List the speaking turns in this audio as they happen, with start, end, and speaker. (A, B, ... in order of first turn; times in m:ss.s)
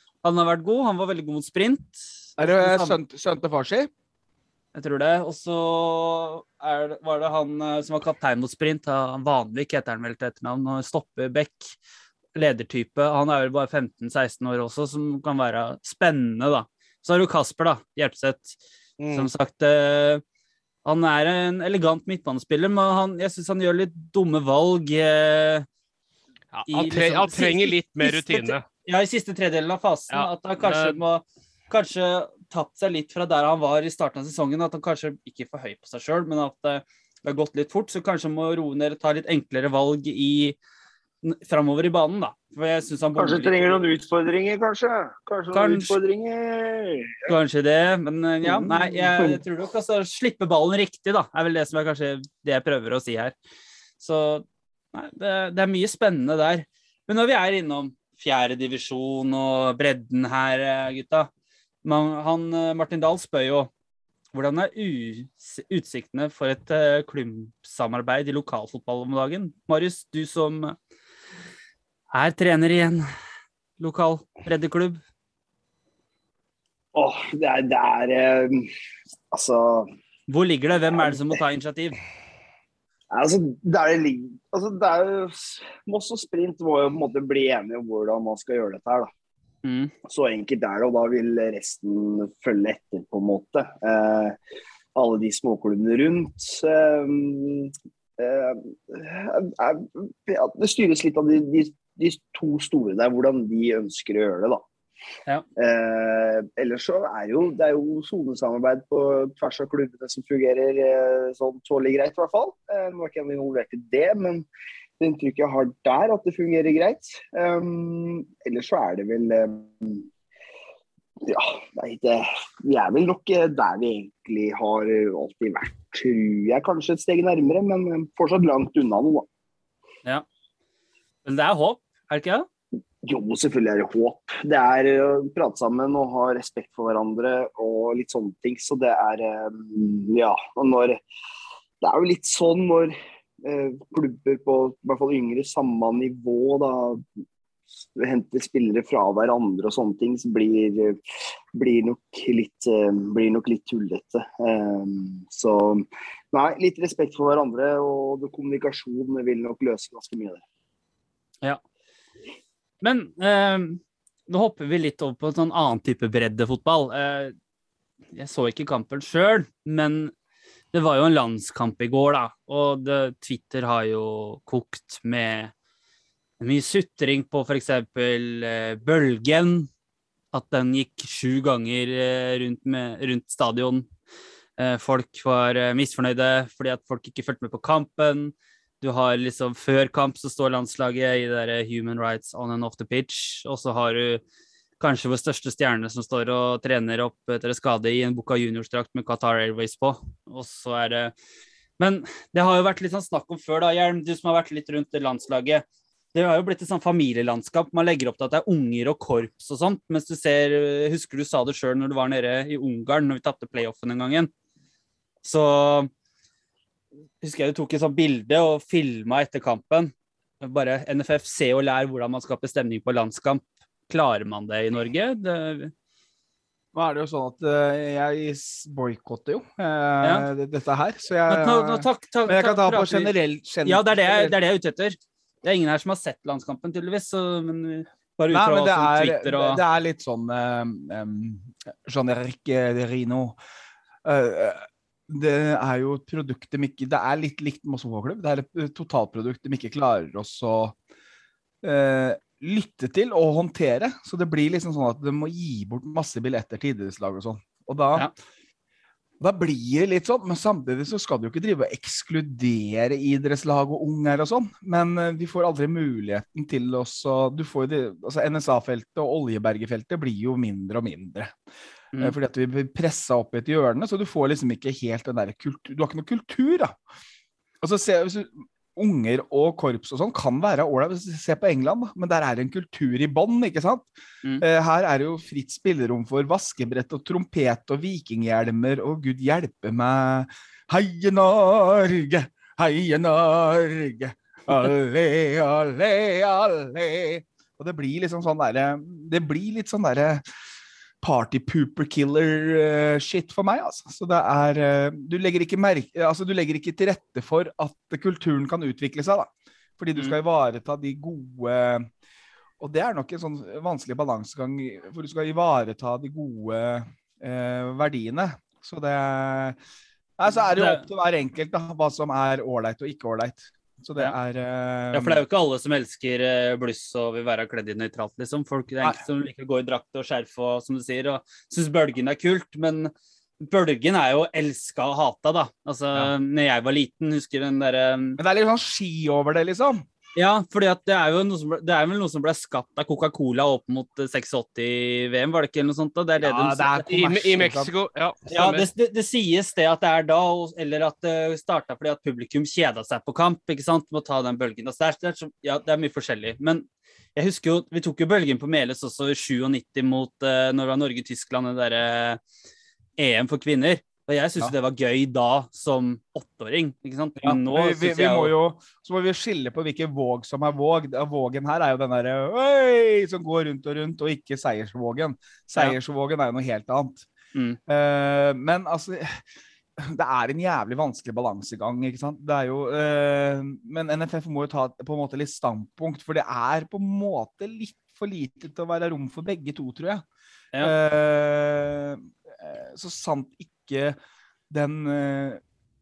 0:00.2-0:03.0 A
0:02.4-0:03.9 B
0:04.7-0:11.8 A
0:12.4-0:18.6 A
0:19.0-0:19.3 C
0:19.1-0:20.2 A
0:20.8-0:25.7 A
0:26.5-0:28.6 C
0:26.7-0:40.6 A
0:30.1-0:31.0 C
0:41.2-0:43.8 A
0:43.2-0:47.3 D
0:45.5-0:46.0 A
0:47.3-0:53.4 A
0:48.4-0:49.4 D
0:54.0-1:01.3 A
1:01.8-1:03.7 A
1:04.3-1:10.8 A
1:12.1-1:13.0 A
1:13.8-1:15.0 A
1:17.0-1:18.7 D
1:19.3-1:19.9 D
1:20.3-1:22.0 A
1:21.0-1:21.2 D
1:23.1-1:29.1 D
1:29.6-1:29.9 A
1:30.1-1:34.4 D
1:35.0-1:44.6 D
1:45.6-1:54.4 D
1:55.0-2:00.1 D
2:01.2-2:09.3 D
2:11.2-2:12.5 A
2:13.0-2:21.0 D
2:21.8-2:27.0 D
2:28.0-2:31.0 D
2:31.6-2:40.4 D
2:42.8-2:47.4 A
2:48.1-2:50.1 A
2:50.7-2:55.5 A
2:56.4-2:59.7 A
3:00.3-3:03.9 A
3:04.6-3:14.2 A
3:14.8-3:21.1 A
3:21.8-3:34.3 A
3:35.2-3:35.9 A
3:37.2-3:45.7 A
3:46.7-3:54.4 B
3:50.0-3:50.3 A
3:51.3-3:59.6 A
3:58.3-4:03.4 B
4:04.0-4:10.8 B
4:11.6-4:18.1 B
4:19.2-4:31.3 B
4:32.0-4:36.8 B
4:37.6-5:00.2 B
5:01.0-5:11.9 B
5:12.6-5:19.6 B
5:20.2-5:25.2 B
5:20.6-5:20.9 A
5:24.9-5:38.2 A
5:38.2-5:39.8 B
5:40.2-5:46.9 A
5:46.2-5:47.7 B
5:46.9-5:48.7 C
5:48.3-6:02.2 A
6:03.0-6:08.4 A
6:07.2-6:17.1 B
6:17.3-6:17.6 A
6:17.7-6:19.2 B
6:19.8-6:30.0 B
6:30.6-6:34.0 B
6:34.5-6:35.4 B